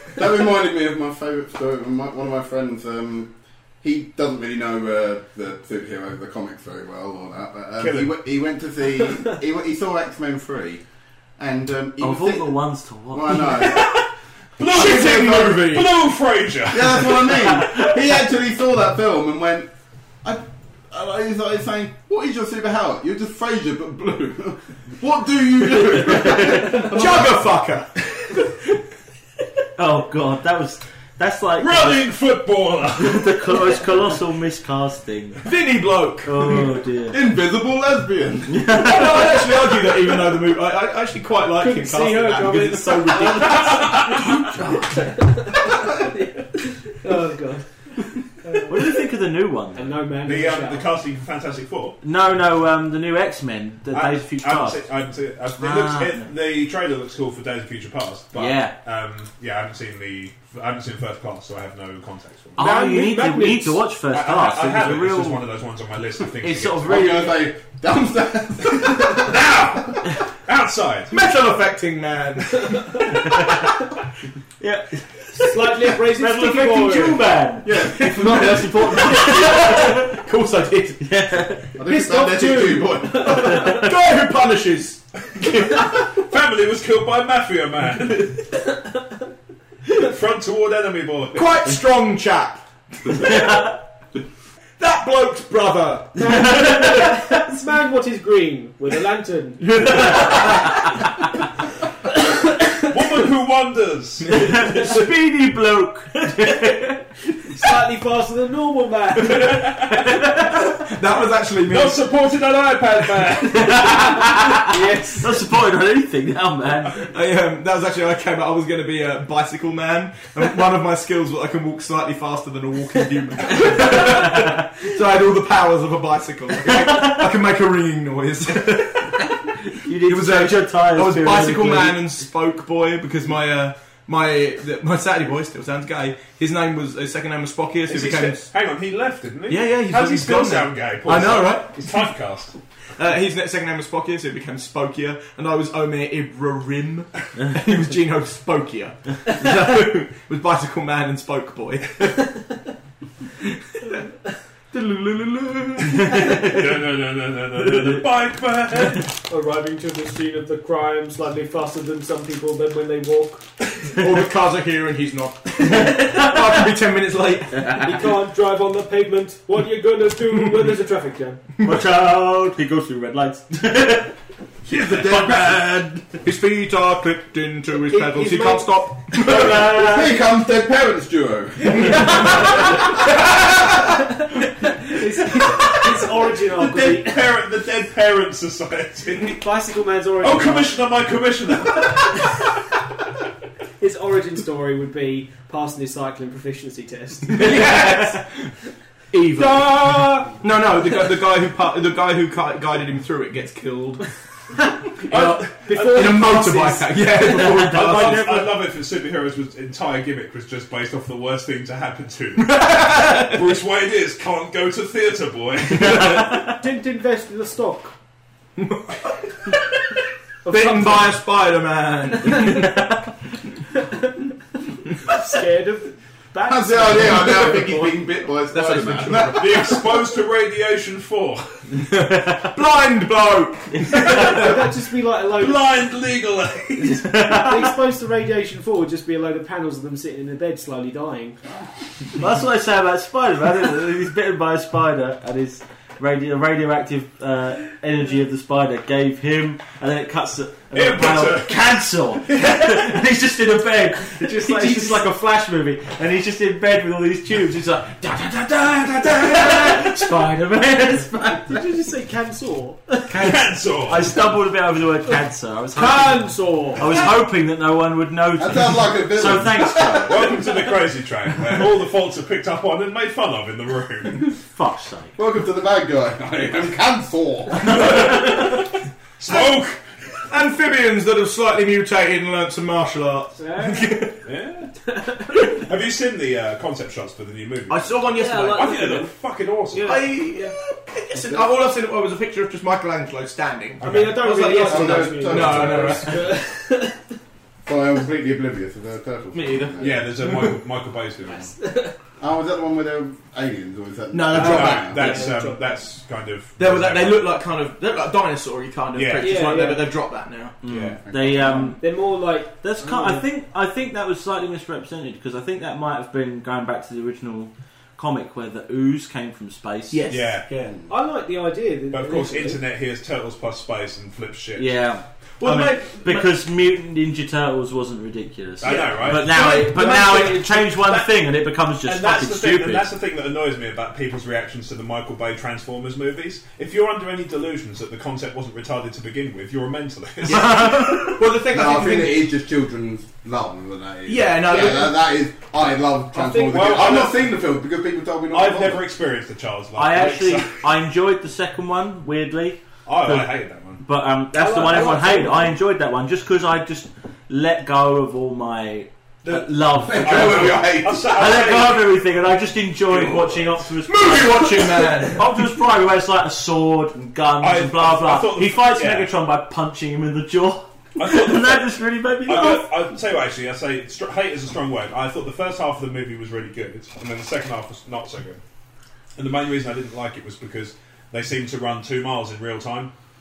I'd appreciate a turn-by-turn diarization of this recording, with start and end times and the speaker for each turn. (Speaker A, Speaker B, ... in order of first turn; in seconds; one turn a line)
Speaker A: 0.2-3.3
Speaker A: 3.8-10.8
Speaker B: 7.8-8.1
Speaker A: 11.4-12.6
Speaker C: 12.0-13.6
Speaker A: 13.1-14.0
Speaker B: 13.5-17.7
Speaker D: 14.6-16.0
Speaker A: 14.7-15.6
Speaker A: 16.7-19.7
Speaker A: 20.2-27.4
Speaker D: 25.9-27.9
Speaker C: 26.2-26.8
Speaker C: 29.8-32.1
Speaker B: 31.6-33.5
Speaker C: 33.0-35.4
Speaker D: 35.4-36.7
Speaker C: 36.2-37.2
Speaker A: 37.1-38.8
Speaker C: 38.5-39.4
Speaker D: 38.7-43.9
Speaker E: 41.6-47.9
Speaker C: 44.4-44.9
Speaker E: 48.4-48.9
Speaker C: 48.7-50.0
Speaker E: 49.8-50.9
Speaker B: 50.2-52.0
Speaker C: 52.0-54.8
Speaker B: 53.9-62.7
Speaker C: 55.6-56.3
Speaker C: 58.3-58.7
Speaker E: 62.6-63.8
Speaker C: 62.6-65.4
Speaker B: 64.1-67.0
Speaker C: 66.4-67.5
Speaker A: 66.9-69.8
Speaker B: 69.1-71.2
Speaker D: 71.1-73.3
Speaker C: 74.6-80.1
Speaker E: 75.4-77.2
Speaker A: 77.7-79.0
Speaker D: 77.7-81.1
Speaker E: 79.0-79.8
Speaker C: 81.0-81.7
Speaker A: 81.8-83.5
Speaker E: 81.8-83.9
Speaker D: 83.2-86.0
Speaker B: 85.7-88.4
Speaker B: 89.9-91.8
Speaker D: 91.3-93.7
Speaker D: 94.8-96.3
Speaker E: 96.2-101.0
Speaker D: 99.7-100.7
Speaker C: 99.9-100.4
Speaker E: 102.2-102.9
Speaker B: 102.8-104.6
Speaker C: 104.3-107.0
Speaker E: 107.5-110.5
Speaker B: 109.2-110.5
Speaker D: 110.7-112.0
Speaker B: 111.7-114.2
Speaker C: 113.5-117.1
Speaker E: 114.6-115.4
Speaker D: 117.0-129.4
Speaker E: 123.7-124.4
Speaker C: 129.7-132.0
Speaker D: 130.0-138.5
Speaker B: 137.9-142.5
Speaker D: 139.5-141.8
Speaker D: 143.0-152.4
Speaker E: 154.7-156.4
Speaker B: 155.8-159.1
Speaker E: 159.3-163.5
Speaker D: 163.9-167.9
Speaker E: 167.8-171.5
Speaker C: 171.6-174.1
Speaker D: 174.7-179.7
Speaker C: 174.8-176.0
Speaker E: 177.8-180.1
Speaker C: 179.3-180.1
Speaker A: 179.3-182.7
Speaker E: 181.7-183.1
Speaker E: 184.2-187.3
Speaker B: 185.4-189.4
Speaker E: 189.3-190.8
Speaker B: 190.2-192.5
Speaker E: 193.8-198.2
Speaker D: 197.3-198.5
Speaker D: 199.1-204.1
Speaker E: 199.4-200.4
Speaker E: 204.6-208.3
Speaker B: 205.1-206.4
Speaker D: 205.1-208.3
Speaker C: 207.5-208.5
Speaker B: 207.6-216.4
Speaker D: 212.4-213.4
Speaker D: 215.8-216.1
Speaker E: 216.0-217.9
Speaker D: 218.6-219.7
Speaker E: 220.5-221.1
Speaker D: 220.5-222.8
Speaker E: 222.2-222.7
Speaker E: 223.8-224.2
Speaker E: 225.0-227.9
Speaker A: 226.4-229.7
Speaker D: 228.5-229.8
Speaker B: 229.1-231.6
Speaker D: 232.4-234.6
Speaker E: 234.0-235.8
Speaker B: 234.2-234.5
Speaker B: 235.3-237.2
Speaker E: 236.8-241.4
Speaker C: 237.0-237.7
Speaker C: 242.2-261.6
Speaker B: 250.7-251.8
Speaker E: 254.2-255.1
Speaker E: 261.4-263.2
Speaker C: 263.1-270.3
Speaker B: 263.2-264.1
Speaker E: 265.7-267.0
Speaker A: 268.4-270.4
Speaker B: 270.1-274.4
Speaker C: 274.5-275.1
Speaker A: 275.2-278.0
Speaker B: 277.7-278.7
Speaker D: 278.0-278.3
Speaker B: 279.2-279.8
Speaker D: 279.3-279.5
Speaker D: 280.3-284.2
Speaker E: 283.4-284.1
Speaker B: 284.2-284.7
Speaker E: 284.9-285.6
Speaker B: 285.3-290.0
Speaker D: 287.7-288.8
Speaker E: 288.1-289.1
Speaker E: 289.7-290.5
Speaker D: 289.8-296.2
Speaker B: 293.8-294.4
Speaker E: 293.8-297.0
Speaker A: 294.6-296.2
Speaker A: 297.7-300.1
Speaker D: 299.3-300.6
Speaker B: 299.8-301.5
Speaker E: 301.4-301.9
Speaker A: 302.2-305.3
Speaker D: 304.1-305.4
Speaker B: 304.4-307.2
Speaker E: 304.4-305.6
Speaker D: 306.6-310.6
Speaker B: 308.9-309.4
Speaker E: 309.2-309.9
Speaker C: 310.6-311.9
Speaker B: 310.7-311.0
Speaker A: 310.8-311.8
Speaker E: 311.8-313.2
Speaker C: 312.6-320.1
Speaker D: 319.9-320.8
Speaker B: 320.1-320.5
Speaker E: 320.9-322.6
Speaker B: 321.9-324.7
Speaker C: 324.6-332.9
Speaker D: 325.4-326.4
Speaker B: 328.6-329.5
Speaker D: 328.6-330.7
Speaker B: 330.8-331.1
Speaker B: 331.8-341.1
Speaker D: 340.2-342.3
Speaker E: 340.4-341.2
Speaker A: 341.4-348.8
Speaker D: 344.1-345.0
Speaker E: 346.1-346.9
Speaker B: 346.5-347.3
Speaker B: 348.3-350.6
Speaker C: 349.8-372.7
Speaker B: 352.9-353.8
Speaker E: 354.3-355.6
Speaker B: 359.2-362.0
Speaker A: 359.8-361.5
Speaker B: 362.9-363.5
Speaker D: 363.9-365.3
Speaker B: 367.4-369.1
Speaker B: 371.0-371.7
Speaker B: 372.2-378.4
Speaker B: 379.2-382.9